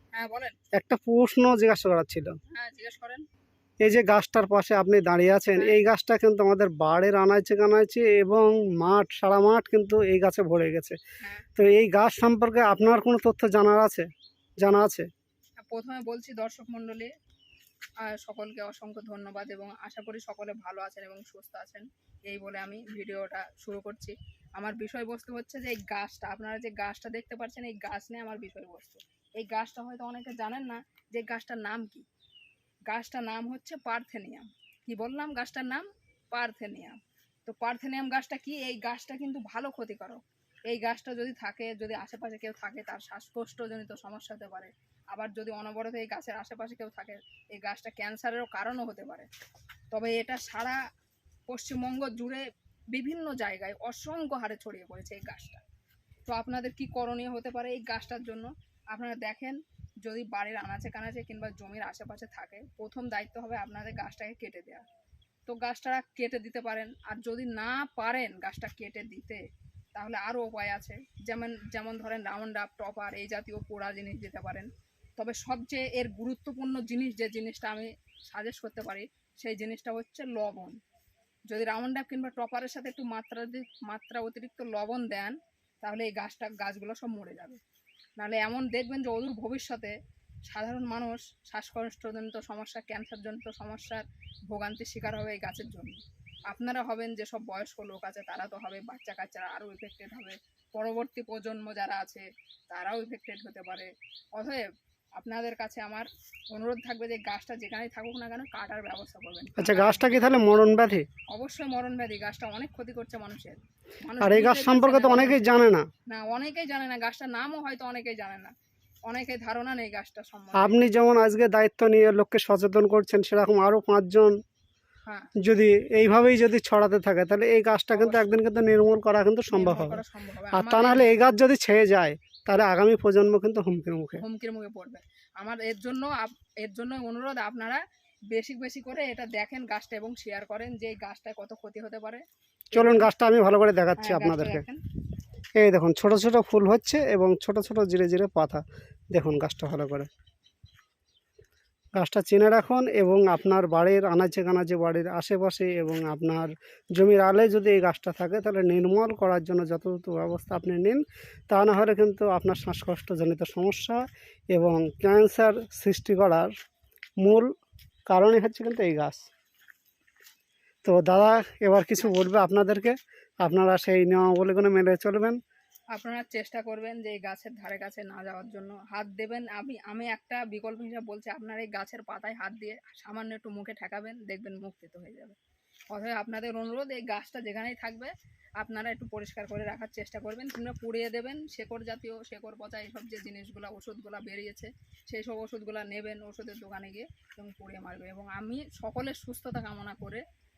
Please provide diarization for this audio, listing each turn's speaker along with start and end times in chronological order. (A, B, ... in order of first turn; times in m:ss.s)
0:00.1-0:00.7 A
0:00.7-0:02.3 B
0:02.5-0:03.2 A
0:03.8-0:11.0 B
0:05.5-0:05.8 A
0:11.2-0:11.5 A
0:11.5-0:14.0 B
0:14.6-0:15.1 B
0:15.7-0:17.1 A
0:18.0-0:32.0 A
0:32.9-0:49.3 A
0:49.9-0:50.8 A
0:51.5-0:55.6 A
0:56.2-1:04.9 A
1:05.4-1:09.4 A
1:09.9-1:20.8 A
1:21.5-1:27.6 A
1:28.2-1:29.9 A
1:30.5-1:44.6 A
1:45.2-1:50.3 A
1:49.6-1:51.1 B
1:51.3-1:55.6 A
1:54.2-1:55.8 B
1:56.1-1:58.5 A
1:59.1-2:00.9 A
2:00.5-2:04.3 B
2:05.0-2:05.3 A
2:05.4-2:10.0 B
2:07.9-2:08.4 A
2:09.5-2:11.2 A
2:10.5-2:14.2 B
2:14.2-2:22.2 A
2:22.7-2:23.1 A
2:22.8-2:24.6 B
2:23.9-2:24.8 A
2:25.6-2:30.1 B
2:31.9-2:44.0 B
2:44.5-2:46.5 B
2:47.2-2:47.5 B
2:48.1-2:49.2 B
2:50.8-2:55.4 B
2:52.0-2:52.2 A
2:55.9-3:05.4 A
3:05.9-3:20.2 A